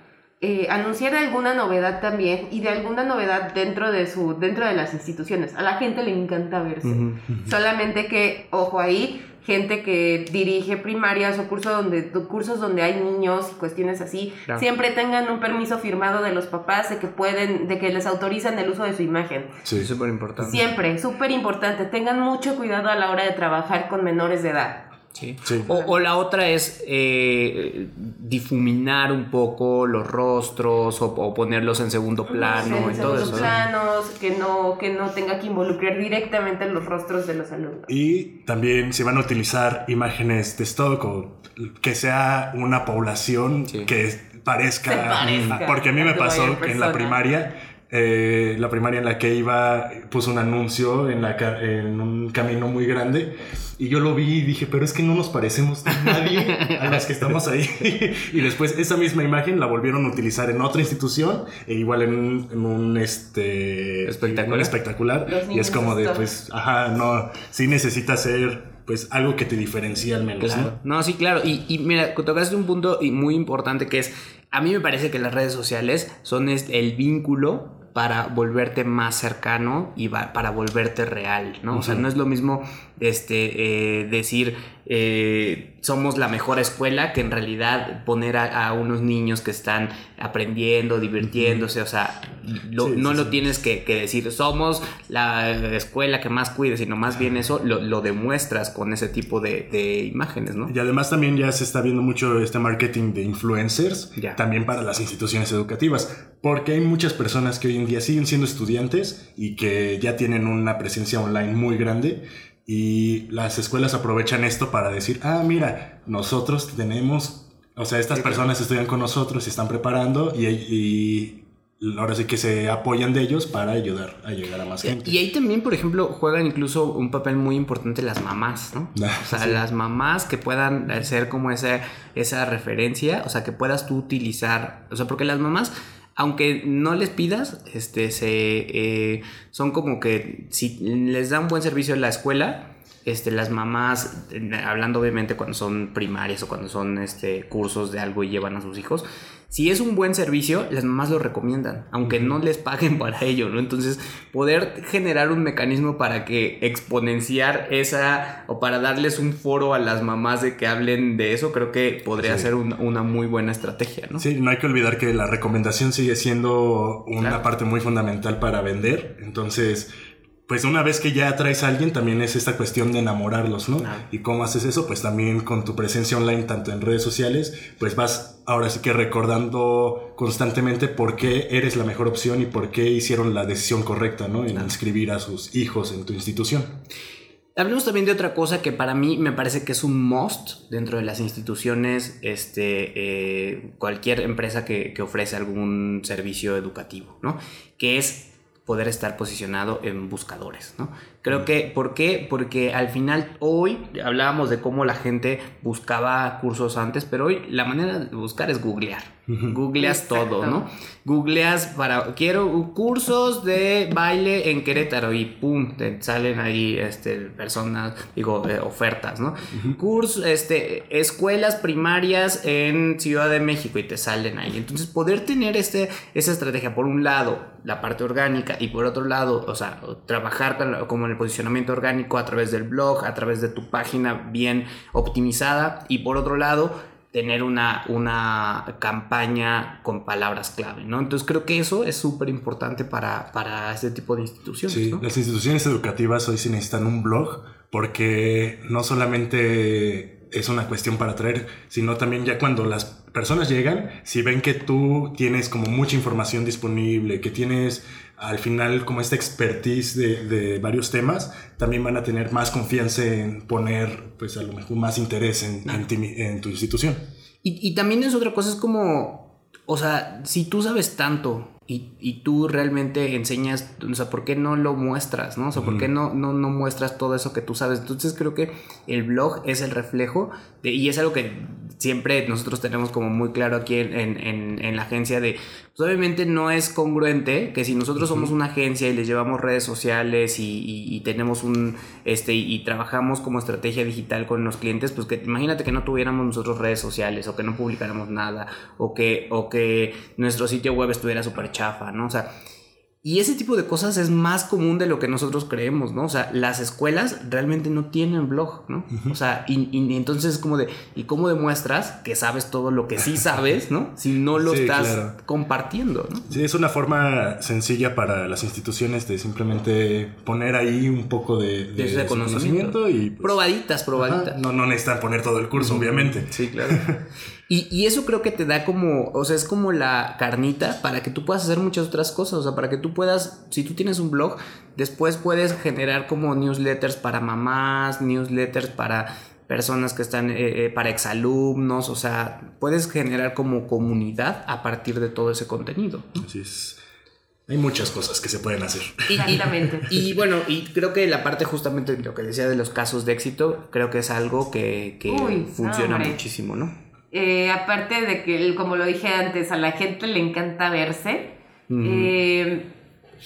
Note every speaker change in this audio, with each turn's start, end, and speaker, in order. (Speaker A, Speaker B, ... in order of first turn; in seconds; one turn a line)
Speaker A: 0.4-19.6
Speaker B: 6.8-7.2
Speaker C: 19.6-19.9
Speaker B: 19.7-20.6
Speaker A: 20.4-24.9
Speaker B: 25.1-33.5
Speaker C: 25.4-25.7
Speaker A: 25.7-25.9
Speaker A: 32.3-37.9
Speaker C: 33.0-33.5
Speaker C: 37.9-70.7
Speaker A: 44.9-47.2
Speaker B: 56.5-57.0
Speaker B: 64.0-64.7
Speaker A: 65.3-66.3
Speaker B: 70.4-100.7
Speaker C: 81.7-82.0
Speaker C: 91.2-91.6
Speaker C: 92.8-93.5
Speaker C: 100.7-125.2
Speaker B: 118.1-118.5
Speaker B: 124.8-164.2
Speaker C: 128.9-129.6
Speaker C: 152.0-152.4
Speaker C: 162.2-162.5
Speaker C: 164.2-169.9
Speaker C: 170.5-186.8
Speaker B: 173.8-174.1
Speaker B: 187.6-245.0
Speaker C: 209.3-209.6
Speaker A: 209.8-210.7
Speaker C: 219.5-219.8
Speaker C: 244.7-267.0
Speaker B: 267.4-302.3
Speaker C: 275.5-275.9
Speaker C: 288.0-288.3
Speaker B: 303.0-316.3
Speaker C: 308.9-309.1
Speaker C: 314.4-315.1
Speaker C: 316.3-323.4
Speaker B: 321.8-324.3
Speaker C: 323.9-327.0
Speaker B: 325.6-326.8
Speaker B: 327.5-346.2
Speaker C: 346.2-346.8
Speaker C: 347.5-349.8
Speaker A: 349.1-349.9
Speaker B: 349.1-356.7
Speaker A: 355.1-356.2
Speaker A: 357.1-362.7
Speaker B: 361.7-362.1